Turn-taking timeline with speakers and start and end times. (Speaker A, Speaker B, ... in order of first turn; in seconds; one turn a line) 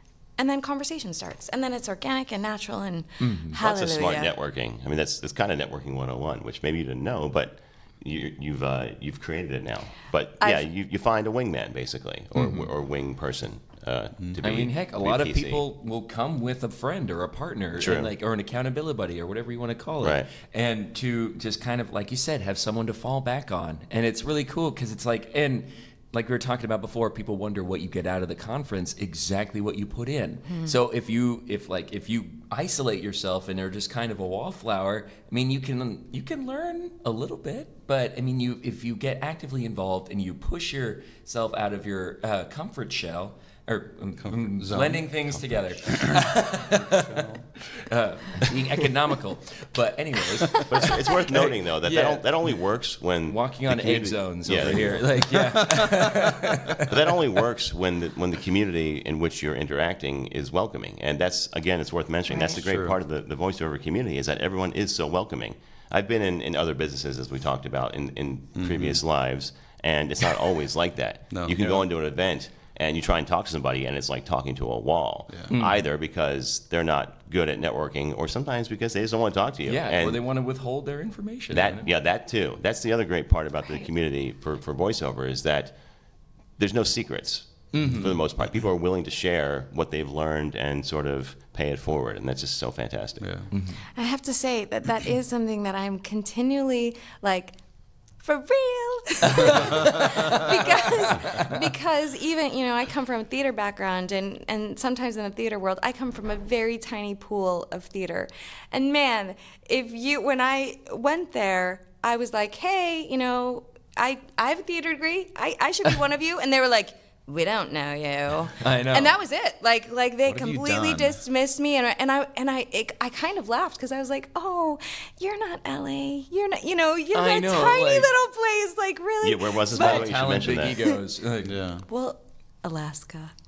Speaker A: 0.4-4.3
Speaker B: 3.2-3.6
Speaker C: 3.6-15.6
Speaker A: 10.4-10.7
Speaker B: 12.4-12.7
Speaker B: 14.4-52.2
Speaker C: 17.8-18.1
Speaker C: 20.0-20.3
Speaker A: 30.5-30.8
Speaker D: 44.2-47.4
Speaker C: 50.7-55.3
Speaker B: 53.3-56.9
Speaker D: 54.5-55.0
Speaker D: 55.6-56.1
Speaker C: 56.9-80.2
Speaker D: 62.5-62.9
Speaker D: 68.5-69.0
Speaker D: 71.3-71.8
Speaker B: 75.5-75.8
Speaker B: 79.7-81.9
Speaker C: 81.5-85.8
Speaker C: 86.6-93.3
Speaker B: 87.7-88.2
Speaker D: 93.2-93.5
Speaker B: 93.5-93.8
Speaker A: 93.9-97.6
Speaker A: 98.2-130.1
Speaker B: 118.6-119.1
Speaker D: 120.2-121.2
Speaker B: 127.1-128.1
Speaker C: 129.2-130.9
Speaker B: 129.7-131.6
Speaker D: 131.4-131.8
Speaker A: 131.9-133.3